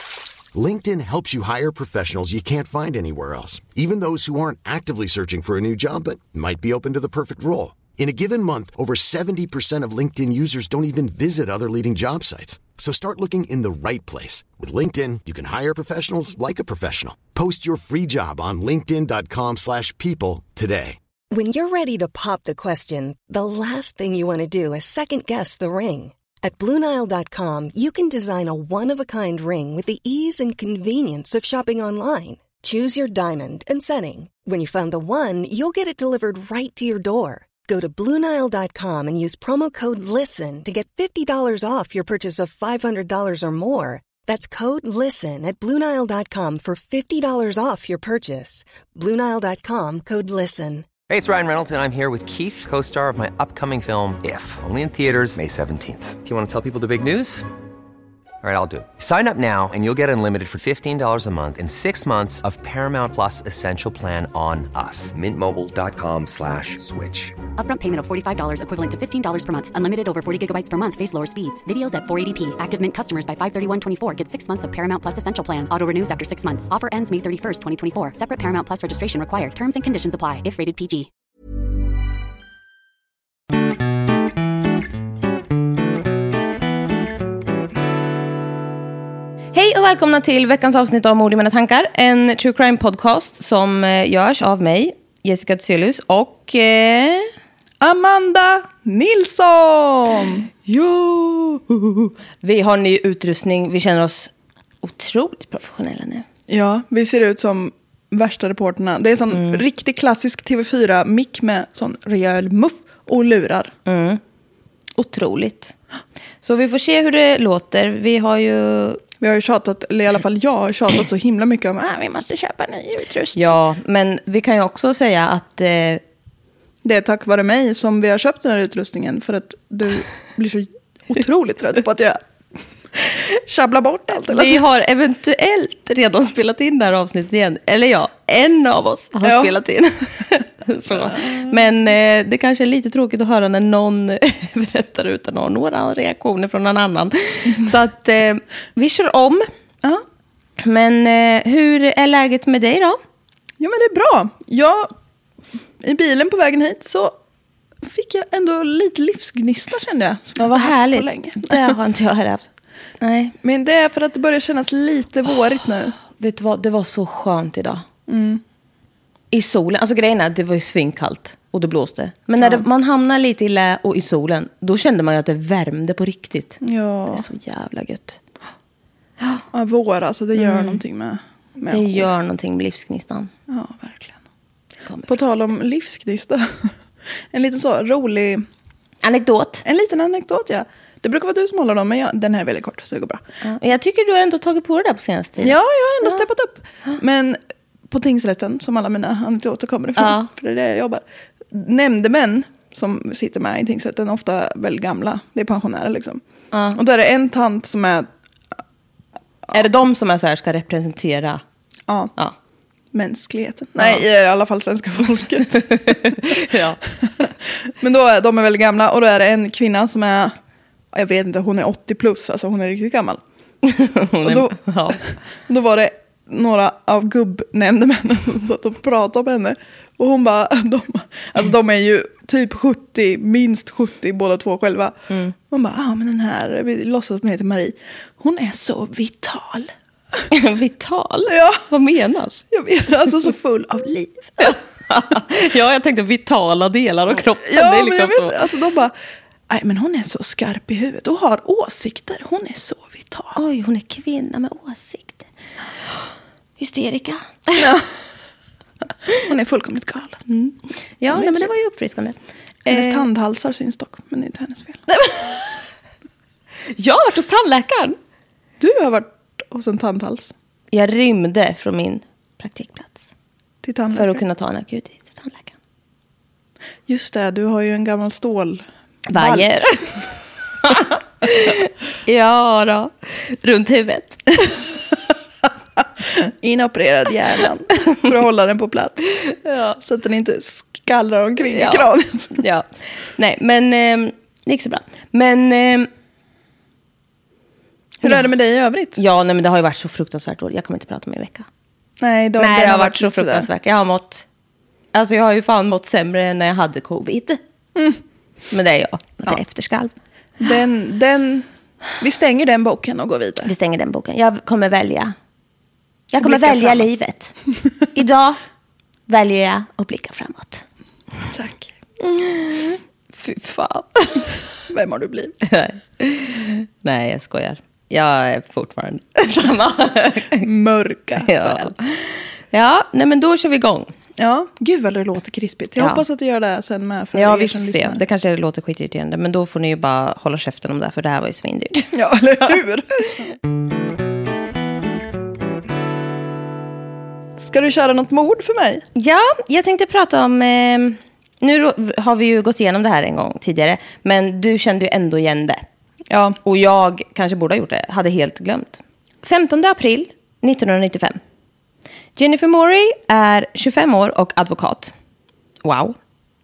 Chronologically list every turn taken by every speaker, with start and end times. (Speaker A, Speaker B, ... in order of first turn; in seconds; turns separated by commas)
Speaker A: 0.5-21.0, Speaker B: 21.3-50.9, Speaker C: 51.1-57.4, Speaker C: 58.4-67.3, Speaker D: 67.6-81.1, Speaker E: 89.5-97.3, Speaker F: 97.8-100.5, Speaker E: 100.7-106.2, Speaker F: 106.5-113.7, Speaker E: 109.3-109.6, Speaker E: 113.8-114.2, Speaker E: 115.0-115.8, Speaker E: 116.4-119.0, Speaker F: 119.2-123.5, Speaker E: 123.3-126.0, Speaker F: 126.8-132.2, Speaker F: 132.9-134.6, Speaker E: 134.3-149.5, Speaker F: 139.2-139.5, Speaker F: 140.9-141.5, Speaker E: 150.6-153.0, Speaker F: 153.6-154.9, Speaker F: 155.8-157.2, Speaker F: 157.8-161.7, Speaker E: 160.4-163.3, Speaker F: 163.4-165.9, Speaker E: 166.0-167.8, Speaker F: 168.1-168.4, Speaker E: 169.3-176.6, Speaker F: 172.4-172.6, Speaker F: 176.6-177.2, Speaker E: 177.1-178.2, Speaker F: 179.5-182.1, Speaker E: 180.3-180.8, Speaker E: 181.7-183.3, Speaker F: 183.5-184.2, Speaker F: 185.1-188.4, Speaker E: 189.0-189.6, Speaker F: 189.6-193.2, Speaker E: 193.4-195.6, Speaker F: 195.4-206.2, Speaker E: 200.0-200.3, Speaker E: 206.5-206.8, Speaker F: 206.7-208.1, Speaker E: 209.5-211.4, Speaker F: 211.9-212.1, Speaker F: 212.9-220.4, Speaker E: 213.8-214.0, Speaker E: 215.6-216.8, Speaker F: 220.9-223.2, Speaker E: 223.6-225.0, Speaker F: 224.2-239.7, Speaker E: 240.3-242.4, Speaker F: 241.3-241.6, Speaker F: 242.5-244.6, Speaker E: 244.4-248.4, Speaker F: 247.1-248.9, Speaker F: 249.5-253.4, Speaker E: 253.3-255.3, Speaker E: 256.6-257.8, Speaker F: 257.6-257.9, Speaker F: 259.1-260.2, Speaker E: 260.3-263.1, Speaker F: 261.1-261.5, Speaker F: 262.7-264.9, Speaker E: 264.9-265.6, Speaker E: 266.7-268.0, Speaker F: 268.6-270.3, Speaker E: 270.7-273.1, Speaker F: 273.6-274.2, Speaker E: 273.9-275.5, Speaker F: 276.9-279.7, Speaker E: 279.1-280.1, Speaker E: 280.6-284.6, Speaker F: 286.0-289.1, Speaker E: 289.4-289.8, Speaker F: 289.8-292.4, Speaker E: 291.5-295.9, Speaker F: 298.0-299.0, Speaker E: 298.9-301.4, Speaker F: 302.0-303.5, Speaker E: 302.4-304.2, Speaker E: 304.9-307.4, Speaker E: 308.5-309.9, Speaker F: 310.4-311.5, Speaker F: 312.0-313.5, Speaker E: 313.4-315.1, Speaker E: 316.1-317.3, Speaker F: 316.2-316.9, Speaker E: 317.9-318.4, Speaker E: 319.1-320.6, Speaker F: 321.3-321.7, Speaker E: 322.0-324.3, Speaker F: 324.7-325.4, Speaker E: 325.4-330.4, Speaker F: 330.4-331.7, Speaker E: 331.2-333.9, Speaker F: 334.2-338.0, Speaker E: 335.8-336.0, Speaker E: 337.1-341.9, Speaker F: 341.9-343.2, Speaker F: 347.4-348.9, Speaker E: 348.9-355.6, Speaker F: 356.1-356.4, Speaker E: 356.4-361.2, Speaker E: 362.1-364.9, Speaker E: 365.6-365.9